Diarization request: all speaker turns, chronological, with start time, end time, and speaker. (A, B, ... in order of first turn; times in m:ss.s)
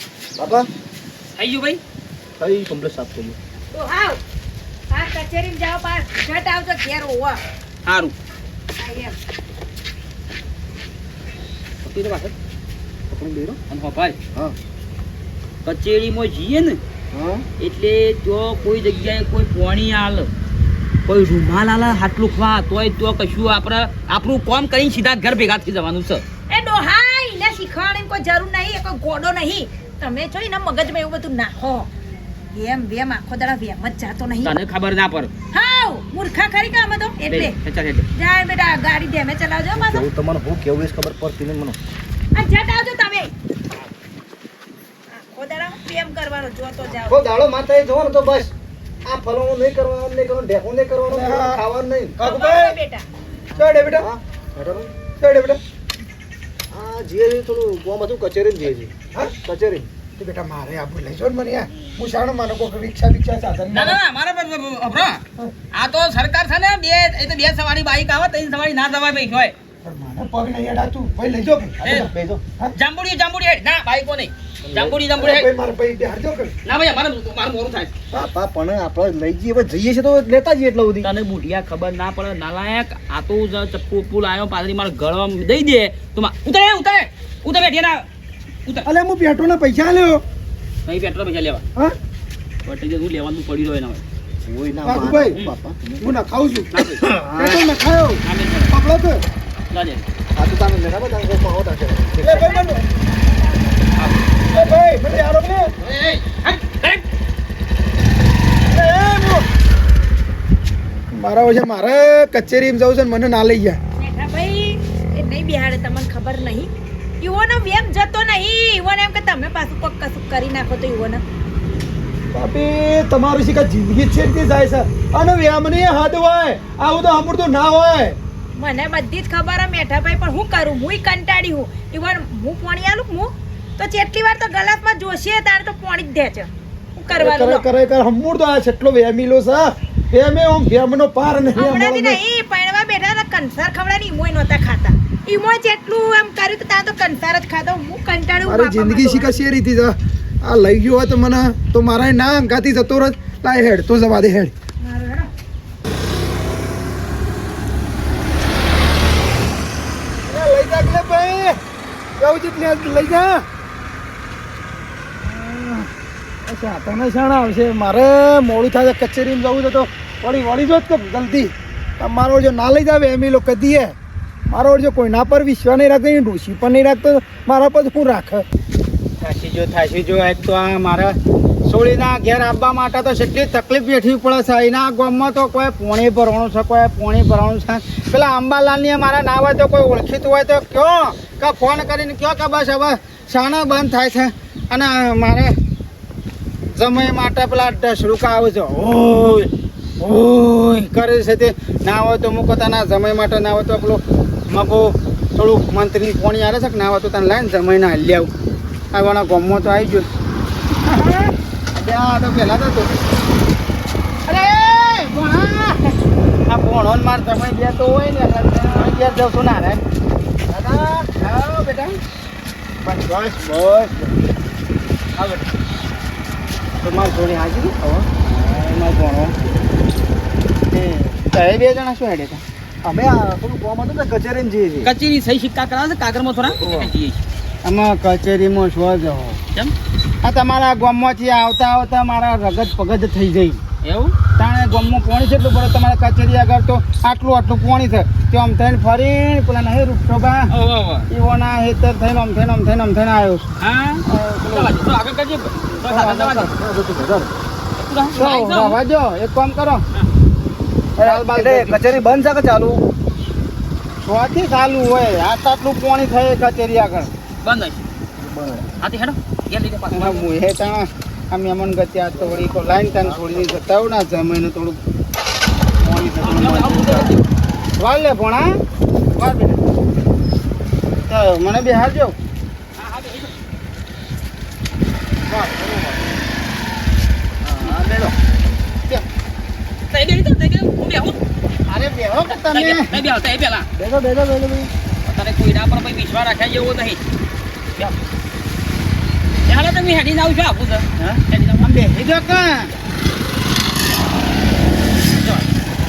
0:00.4-0:00.7 A
0:01.4-0:01.8 B
0:02.4-0:03.4 A
0:03.7-0:04.2 C
0:04.9-0:07.4 C
0:07.9-0:08.1 B
0:08.8-0:09.2 C
0:11.8-0:12.4 B
0:13.1-0:13.6 A
0:13.7-0:14.2 B
0:15.6-0:16.8 B
0:17.1-0:17.5 A
0:17.6-0:20.3 B
0:21.1-0:26.2 B
0:26.5-0:31.9 C
0:32.5-0:34.6 C
0:34.4-0:35.3 B
0:35.5-0:37.6 C
0:37.3-0:38.1 B
0:38.2-0:40.1 C
0:39.7-0:41.8 A
0:42.4-0:43.3 C
0:45.1-0:47.3 C
0:47.0-0:48.5 A
0:49.0-0:52.2 A
0:51.1-0:51.6 D
0:52.2-0:52.8 D
0:52.2-0:53.1 C
0:53.6-0:54.1 D
0:53.9-0:55.0 A
0:55.2-0:55.6 D
0:56.7-0:59.9 A
1:00.1-1:04.0 D
1:03.7-1:05.2 B
1:05.7-1:09.6 B
1:09.8-1:12.7 D
1:11.8-1:12.1 B
1:11.9-1:12.5 A
1:12.8-1:15.5 B
1:14.6-1:15.0 A
1:15.2-1:16.5 D
1:16.6-1:17.9 B
1:18.1-1:21.1 A
1:21.0-1:28.1 B
1:28.8-1:30.2 D
1:30.9-1:31.6 B
1:32.6-1:34.0 B
1:34.4-1:36.1 A
1:34.8-1:35.4 D
1:36.0-1:39.2 D
1:36.7-1:37.5 B
1:38.2-1:38.7 B
1:39.7-1:40.0 B
1:40.4-1:42.3 A
1:42.2-1:42.8 D
1:42.2-1:43.9 C
1:44.0-1:44.2 B
1:44.5-1:45.7 D
1:45.9-1:47.0 B
1:48.7-1:49.4 D
1:51.1-1:53.8 D
1:54.0-2:01.2 C
2:02.3-2:08.2 D
2:08.6-2:17.7 C
2:17.1-2:22.2 D
2:21.6-2:29.3 C
2:28.4-2:34.5 D
2:34.8-2:35.3 C
2:40.3-2:41.6 D
2:42.2-2:43.4 D
2:45.2-2:45.9 D
2:46.4-2:54.0 D
2:54.5-2:58.4 D
2:59.2-3:15.5 E
3:16.7-3:28.3 E
3:28.9-3:30.1 E
3:30.8-3:33.0 E
3:34.3-3:36.0 E
3:36.5-3:39.8 E
3:40.5-3:41.1 A
3:41.1-3:42.0 E
3:42.8-3:44.0 E
3:46.8-3:49.4 E
3:47.8-3:48.1 A
3:50.7-3:52.4 E
3:52.8-3:54.9 A
3:54.8-3:57.2 B
3:56.6-3:56.9 A
3:57.6-3:59.4 E
4:00.2-4:03.6 E
4:03.8-4:04.2 B
4:04.4-4:10.5 E
4:10.5-4:11.1 B
4:11.1-4:13.5 E
4:13.6-4:16.5 B
4:14.1-4:14.6 E
4:15.8-4:16.5 E
4:16.0-4:17.3 A
4:17.8-4:18.8 B
4:18.1-4:19.8 E
4:21.0-4:21.9 E
4:21.0-4:22.8 A
4:24.0-4:27.1 E
4:27.4-4:27.8 B
4:28.2-4:28.7 A
4:28.8-4:30.3 B
4:29.9-4:34.8 E
4:32.1-4:33.7 A
4:35.8-4:37.1 E
4:36.2-4:37.2 B
4:37.8-4:38.5 E
4:39.2-4:39.6 E
4:41.1-4:42.2 E
4:42.8-4:43.4 B
4:45.5-4:45.9 A
4:47.4-4:48.2 A
4:49.9-4:51.2 B
4:51.7-4:52.9 E
4:52.3-4:53.7 B
4:53.8-4:54.7 A
4:55.0-4:57.0 B
4:59.5-5:01.7 B
5:01.0-5:02.7 E
5:05.2-5:05.5 B